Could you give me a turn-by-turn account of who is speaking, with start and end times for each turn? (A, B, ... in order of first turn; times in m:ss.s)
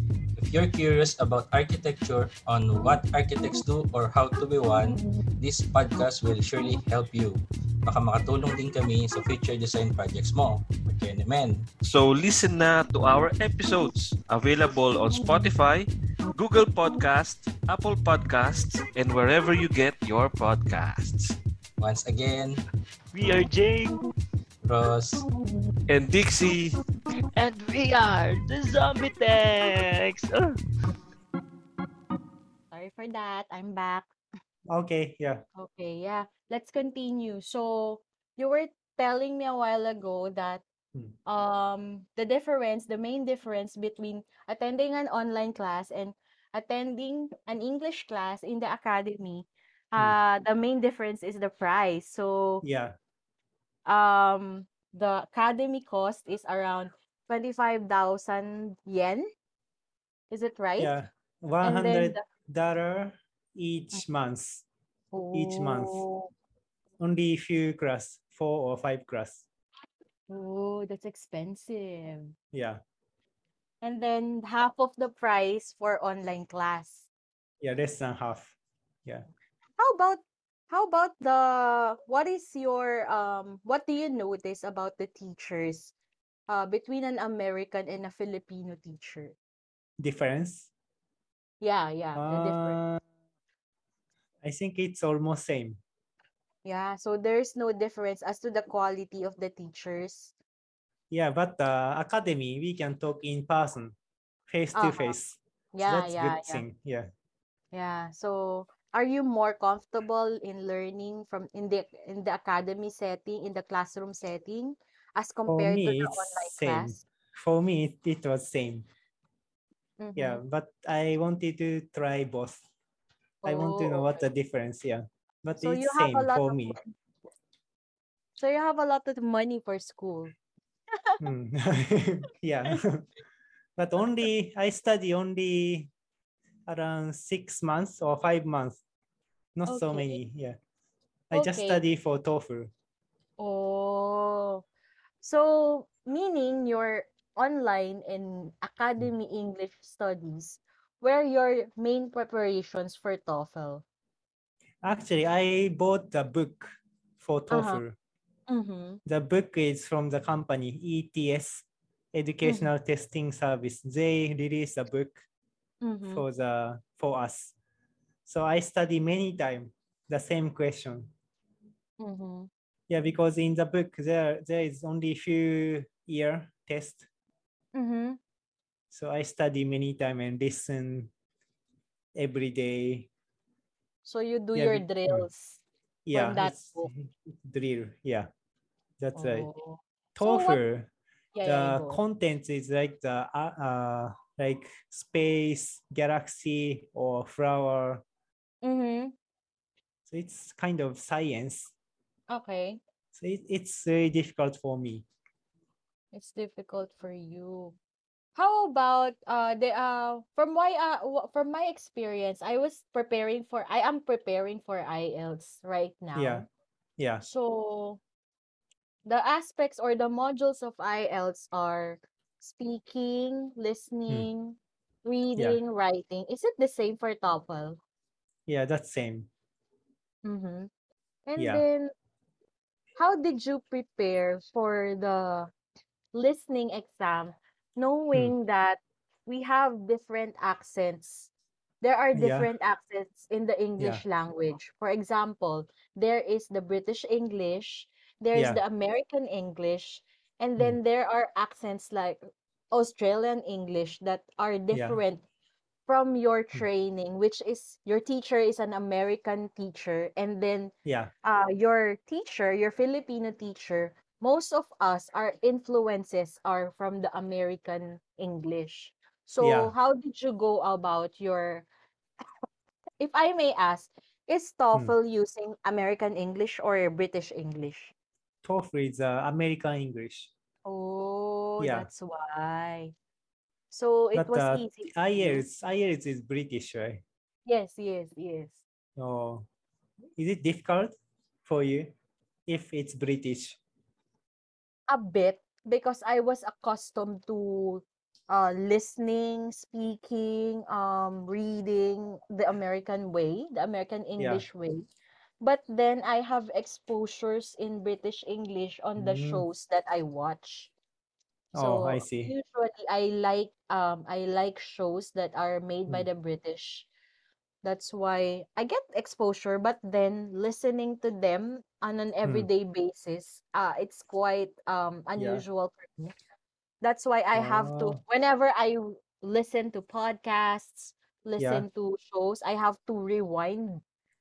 0:00.4-0:11.7 A
0:11.8-0:21.4 B
0:21.8-0:22.6 A
0:23.1-0:24.0 C
0:24.6-0:25.2 A
0:25.9-0:26.8 B
0:27.4-0:30.6 C
0:32.7-0:34.1 D
0:34.7-0:35.4 E
0:35.6-0:40.6 D
0:41.3-0:52.6 D
0:52.6-0:53.0 E
0:53.9-0:59.3 D
1:00.3-1:01.0 D
1:00.8-1:04.6 E
1:01.6-1:02.2 D
1:05.1-1:06.3 D
1:05.3-1:06.0 E
1:07.0-1:09.4 E
1:10.3-1:12.3 D
1:12.5-1:12.8 E
1:13.8-1:17.1 D
1:17.6-1:19.2 E
1:19.8-1:25.9 D
1:26.5-1:29.4 D
1:30.0-1:30.7 E
1:31.6-1:32.8 D
1:32.2-1:33.0 E
1:34.4-1:35.8 E
1:36.6-1:40.3 D
1:41.1-1:44.0 E
1:44.5-1:47.1 E
1:44.8-1:45.2 D
1:45.7-1:46.6 D
1:47.7-1:57.0 D
1:55.5-1:58.9 E
2:00.0-2:00.4 D
2:00.2-2:02.6 E
2:03.4-2:04.2 D
2:03.4-2:06.8 E
2:05.6-2:06.9 D
2:08.4-2:10.3 D
2:11.2-2:13.1 E
2:13.8-2:15.9 E
2:16.7-2:18.8 E
2:19.6-2:20.6 E
2:19.7-2:20.2 D
2:21.3-2:22.7 E
2:21.3-2:21.8 D
2:23.4-2:24.6 D
2:25.2-2:33.8 D
2:34.8-2:38.0 E
2:37.5-2:37.8 D
2:38.5-2:39.0 D
2:39.1-2:45.2 E
2:42.4-2:42.7 D
2:45.8-2:46.2 D
2:46.1-2:47.5 E
2:48.3-2:51.1 E
2:52.0-2:52.5 D
2:52.9-2:57.1 E
2:57.7-2:58.2 D
2:58.9-3:01.1 E
3:02.2-3:03.1 E
3:04.0-3:05.6 D
3:04.6-3:05.3 E
3:06.1-3:08.3 E
3:06.1-3:06.9 D
3:09.0-3:09.5 E
3:09.2-3:10.6 D
3:10.2-3:10.9 E
3:11.3-3:12.0 D
3:11.4-3:18.0 E
3:18.6-3:19.2 D
3:20.1-3:21.7 E
3:22.3-3:22.8 D
3:23.1-3:25.1 E
3:26.1-3:27.8 D
3:28.4-3:36.5 D
3:36.2-3:36.4 E
3:37.0-3:37.2 E
3:37.2-3:38.0 D
3:39.1-3:47.8 D
3:48.5-3:49.3 E
3:50.2-3:50.7 D
3:51.3-3:51.9 D
3:51.4-3:51.6 E
3:53.0-3:55.5 D
3:56.1-4:01.3 D
4:01.8-4:12.2 D
4:02.1-4:02.5 E
4:08.3-4:08.6 E
4:12.7-4:15.2 D
4:14.7-4:15.0 E
4:15.9-4:20.7 D
4:20.8-4:21.1 E
4:21.2-4:31.7 D
4:29.4-4:29.7 E
4:33.0-4:37.9 D
4:38.4-4:40.3 E
4:40.7-4:42.9 D
4:41.6-4:41.9 E
4:43.7-4:45.4 D
4:44.2-4:47.0 E
4:47.5-4:48.6 D
4:49.0-4:49.5 E
4:50.2-4:50.9 E
4:51.4-4:51.9 E
4:52.5-4:53.6 E
4:54.9-5:04.9 D
5:04.2-5:04.4 E
5:05.4-5:10.7 D
5:09.0-5:09.4 E
5:11.5-5:12.3 E
5:11.6-5:16.9 D
5:17.6-5:26.1 D
5:25.2-5:25.4 E
5:26.8-5:33.8 D
5:27.4-5:28.0 E
5:31.4-5:31.6 E